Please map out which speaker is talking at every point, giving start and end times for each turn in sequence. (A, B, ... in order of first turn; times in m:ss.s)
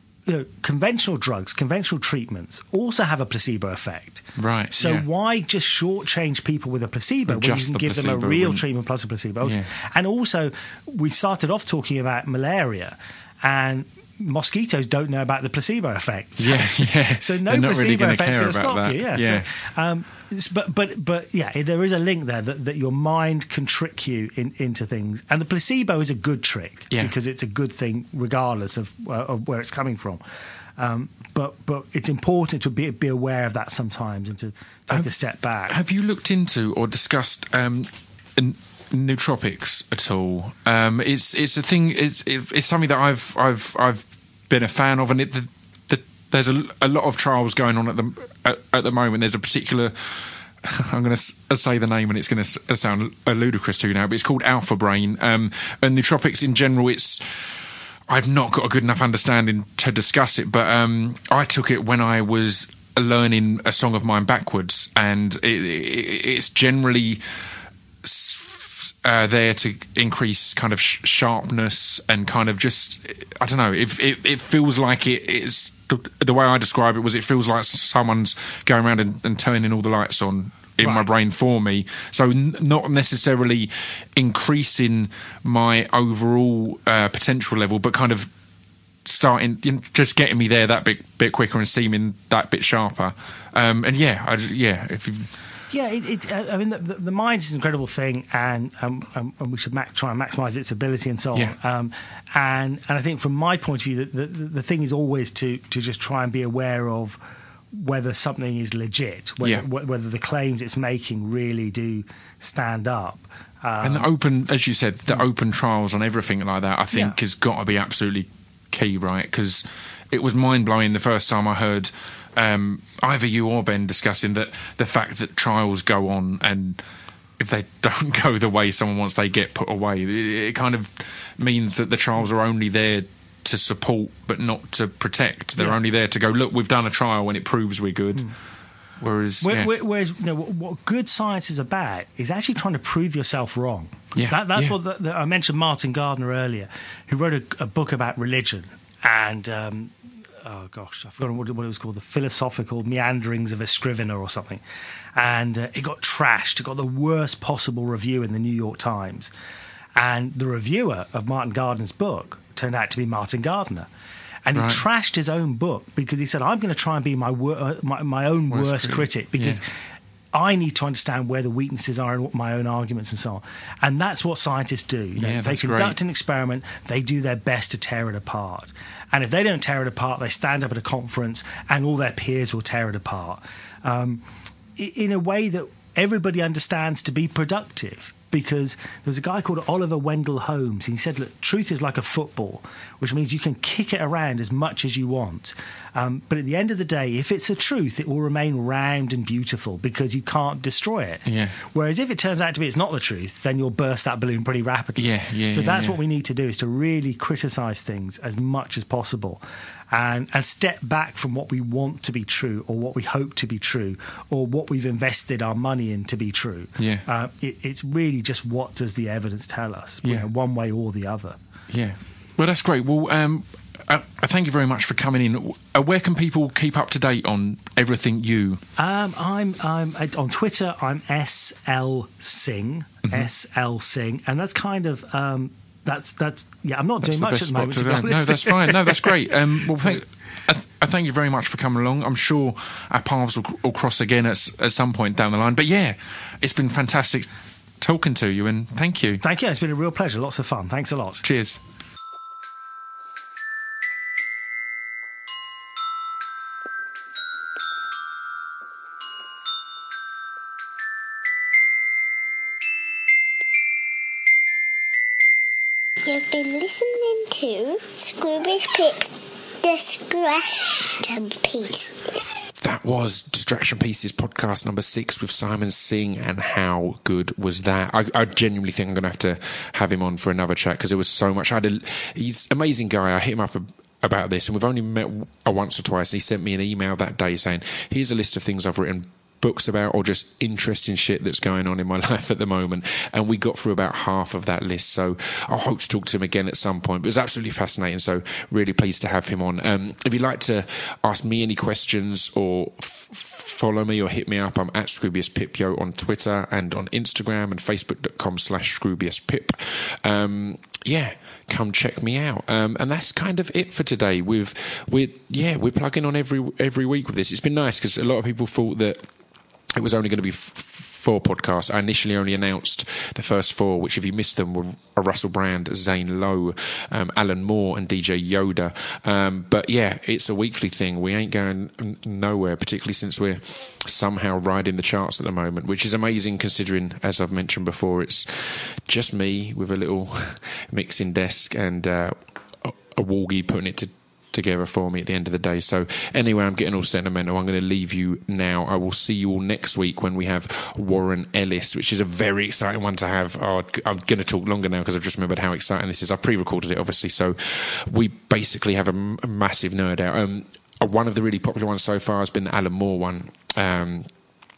0:00.3-0:30.2 A
0:04.4-0:05.0 B
0:07.3-0:08.6 B
0:09.4-0:09.7 B
0:16.4-0:19.5 B
0:30.8-0:35.8 A
0:35.7-0:57.5 B
0:58.1-1:07.2 B
1:08.0-1:28.3 B
1:29.0-1:35.3 B
1:35.7-1:47.2 A
1:47.7-1:54.1 A
1:53.8-2:06.8 B
2:07.4-2:18.3 B
2:19.0-2:19.7 B
2:19.4-2:34.6 A
2:24.2-2:24.8 B
2:35.2-2:39.3 A
2:40.0-2:43.9 A
2:44.5-2:49.8 A
2:44.6-2:44.8 B
2:48.5-2:49.6 B
2:50.3-3:41.4 A
2:55.2-2:56.0 B
3:21.3-3:21.6 B
3:25.0-3:26.0 B
3:36.8-3:37.0 B
3:41.7-3:48.6 B
3:48.8-3:59.2 A
3:57.0-4:07.3 B
4:07.8-4:09.2 B
4:09.2-4:11.2 A
4:11.2-4:11.6 B
4:26.0-4:32.2 C
4:32.6-5:19.0 B
5:19.7-6:04.1 B